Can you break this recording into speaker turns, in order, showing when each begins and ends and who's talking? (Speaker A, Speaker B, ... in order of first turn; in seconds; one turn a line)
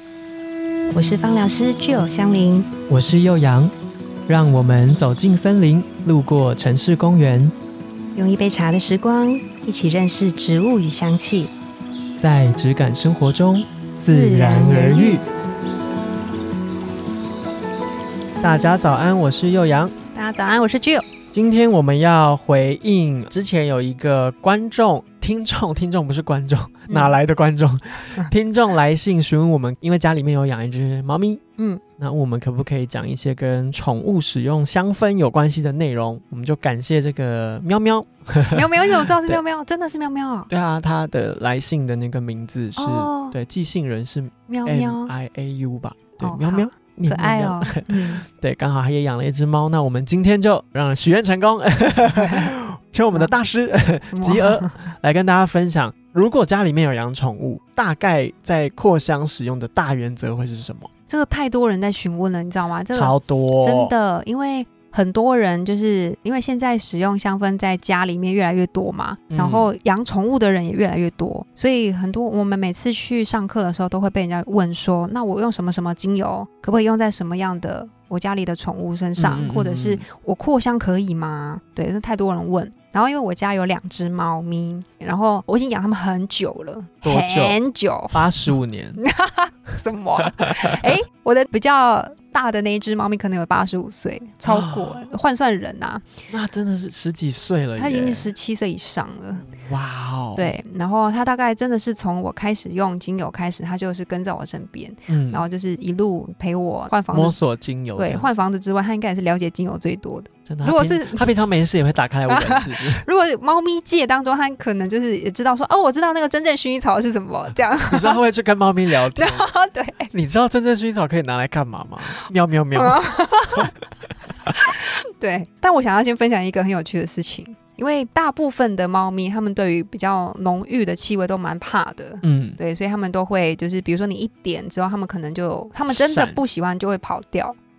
Speaker A: 0.9-2.7
Speaker B: 2.9-3.7
Speaker B: 4.3-7.5
Speaker A: 8.1-11.5
Speaker B: 12.2-15.2
Speaker A: 14.1-15.2
Speaker B: 18.4-19.9
Speaker A: 20.1-21.1
Speaker B: 21.3-31.4
Speaker A: 26.9-27.2
Speaker B: 32.0-39.4
Speaker A: 38.5-40.5
Speaker B: 40.5-60.9
Speaker A: 42.8-43.4
Speaker A: 44.5-45.1
Speaker A: 46.2-48.2
Speaker A: 52.2-52.5
Speaker A: 54.0-54.9
Speaker A: 61.1-88.2
Speaker B: 62.9-63.9
Speaker B: 69.3-69.7
Speaker B: 79.2-80.0
Speaker B: 87.0-87.6
Speaker B: 88.1-89.0
Speaker A: 89.0-96.2
Speaker B: 90.4-90.8
Speaker B: 94.4-95.1
Speaker B: 96.3-98.3
Speaker A: 97.8-99.5
Speaker B: 99.4-100.5
Speaker A: 100.3-107.4
Speaker B: 105.1-105.4
Speaker B: 107.1-108.3
Speaker A: 108.0-111.3
Speaker B: 110.5-113.0
Speaker A: 112.3-118.2
Speaker B: 117.9-119.5
Speaker A: 119.1-120.1
Speaker B: 120.1-123.7
Speaker A: 122.8-123.7
Speaker A: 124.5-137.6
Speaker B: 132.2-132.6
Speaker B: 135.9-136.4